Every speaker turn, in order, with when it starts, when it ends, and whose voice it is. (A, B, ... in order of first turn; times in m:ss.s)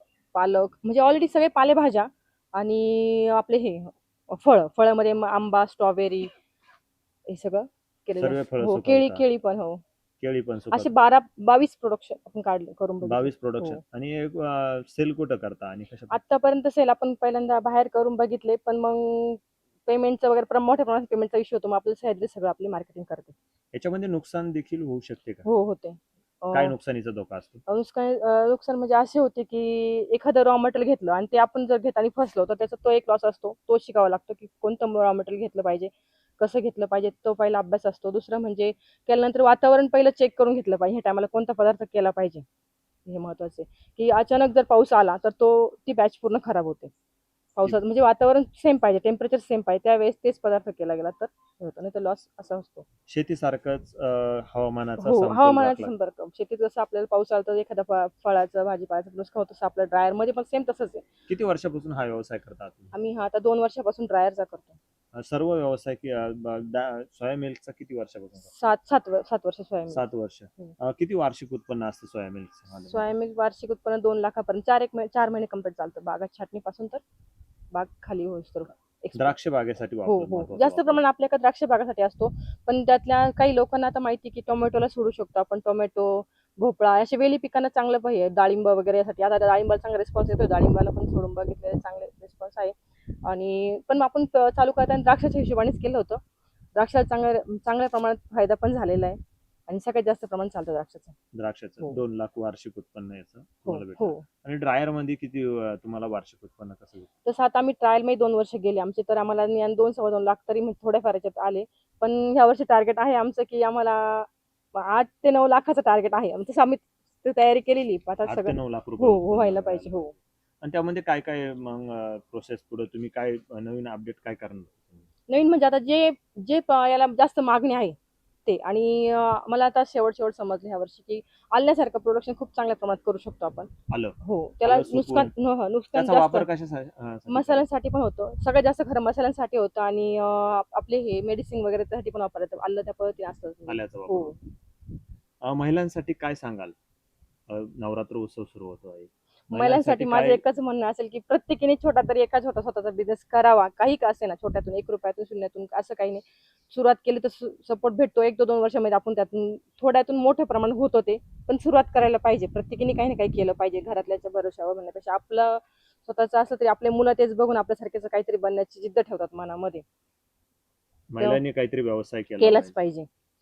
0:00.3-0:06.3 A
0:07.3-0:09.8 A
0:08.2-0:09.2 B
0:10.2-0:10.9 B
0:10.7-0:13.8 A
0:13.0-0:16.2 B
0:16.1-0:23.4 A
0:23.7-0:25.5 B
0:25.5-0:26.8 A
0:26.5-0:27.6 B
0:27.7-0:42.5 A
0:43.1-0:46.9 A
0:47.6-0:52.8 A
0:53.1-0:55.9 B
0:55.0-1:01.1 A
1:01.3-1:02.9 B
1:02.9-1:04.8 A
1:05.1-1:08.5 B
1:08.4-1:10.0 A
1:09.9-1:13.1 B
1:12.9-1:17.0 A
1:17.7-1:19.4 A
1:19.1-1:21.1 B
1:20.0-1:36.2 A
1:36.8-1:41.2 A
1:41.3-1:47.1 B
1:43.7-1:44.3 A
1:47.2-2:00.1 A
1:58.2-2:05.0 B
2:05.3-2:16.5 A
2:13.9-2:15.3 B
2:15.9-2:17.6 B
2:17.3-2:24.4 A
2:23.7-2:24.4 B
2:25.4-2:26.8 B
2:27.5-2:30.4 B
2:29.5-2:49.8 A
2:51.1-2:52.8 B
2:52.4-2:53.1 A